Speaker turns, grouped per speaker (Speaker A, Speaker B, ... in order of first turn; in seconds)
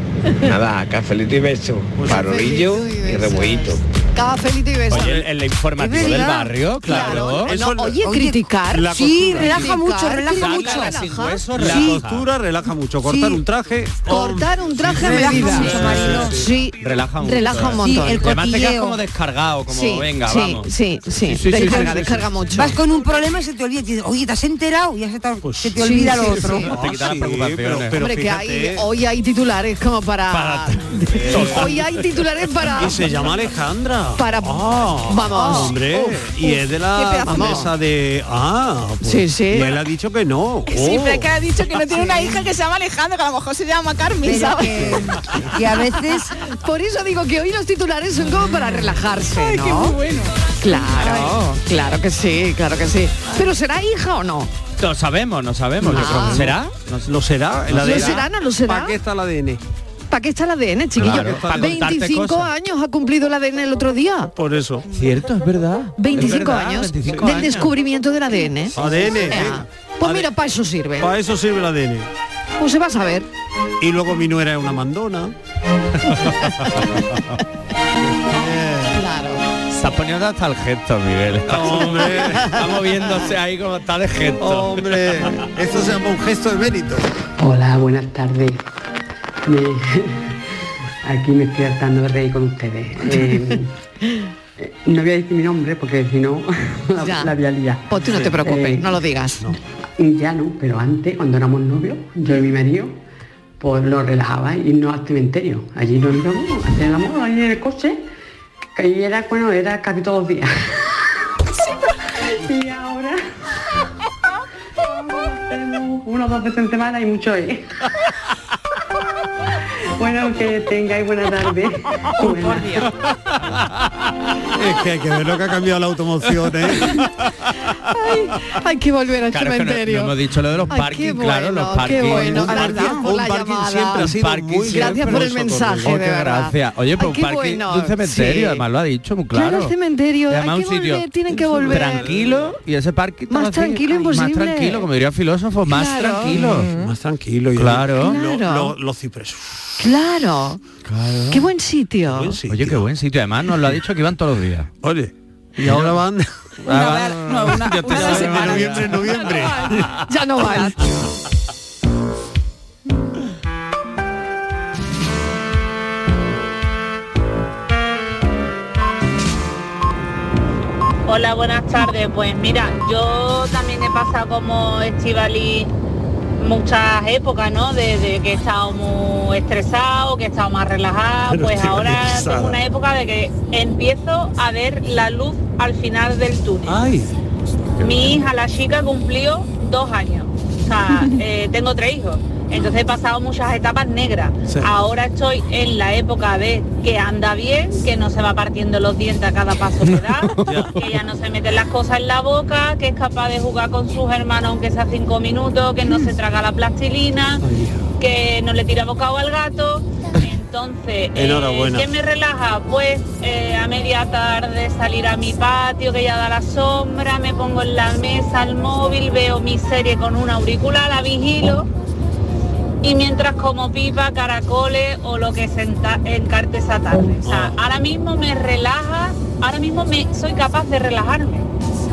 Speaker A: 0.4-3.8
Speaker B: 1.9-2.3, 6.8-8.1, 8.7-9.7, 11.5-16.3, 25.4-28.9, 31.1-31.9, 32.7-41.3, 55.9-56.5, 57.0-59.6, 61.0-61.8, 64.3-64.8, 67.0-67.3, 68.7-70.3, 71.0-72.1, 73.8-75.3, 78.2-79.0, 81.5-82.7, 84.4-87.0, 98.0-98.4, 124.5-127.0, 132.0-136.0, 141.3-142.0, 146.3-149.8, 152.1-152.8, 154.8-156.2, 157.8-160.0, 181.3-182.6, 186.7-187.1, 207.4-207.8, 211.1-211.9, 226.9-227.6
Speaker C: 2.1-5.2, 6.8-11.5, 14.0-18.4, 19.7-22.8, 25.8-26.6, 27.9-33.1, 34.2-36.3, 37.2-37.7, 39.0-39.7, 46.4-50.0, 50.6-54.5, 55.8-56.5, 57.7-59.0, 60.1-64.3, 66.0-71.1, 72.6-73.3, 78.9-79.4, 93.0-93.6, 96.9-99.5, 122.2-122.9, 127.8-130.2, 130.7-134.1, 134.7-138.6, 139.3-142.2, 143.3-144.9, 145.7-146.7, 148.0-148.8, 149.8-150.6, 151.3-152.4, 159.9-160.8
Speaker D: 4.9-7.5, 10.3-12.3, 16.8-20.7, 21.2-22.3, 26.1-28.0, 30.3-31.8, 49.4-50.2, 50.9-51.2, 54.8-58.2, 61.0-62.5, 64.9-67.7, 79.7-84.8, 129.3-132.8, 134.0-139.7, 140.3-141.1, 141.7-146.7, 147.6-148.2, 150.8-151.4, 152.5-154.7, 155.6-156.0, 156.7-159.1
Speaker E: 5.8-6.5, 8.0-10.9, 11.6-12.0, 13.0-13.4, 14.9-16.4, 17.8-19.0, 22.5-26.7, 44.2-46.4
Speaker F: 36.9-37.5, 40.7-45.0, 156.7-159.6
Speaker G: 87.4-88.5, 91.1-93.5, 94.9-96.4, 97.0-97.8, 100.0-102.7, 103.6-107.9, 108.8-110.4, 112.5-113.0, 115.5-117.5, 120.0-122.5
Speaker H: 171.1-175.7, 176.4-186.8, 187.8-207.4, 208.0-221.7, 222.8-231.4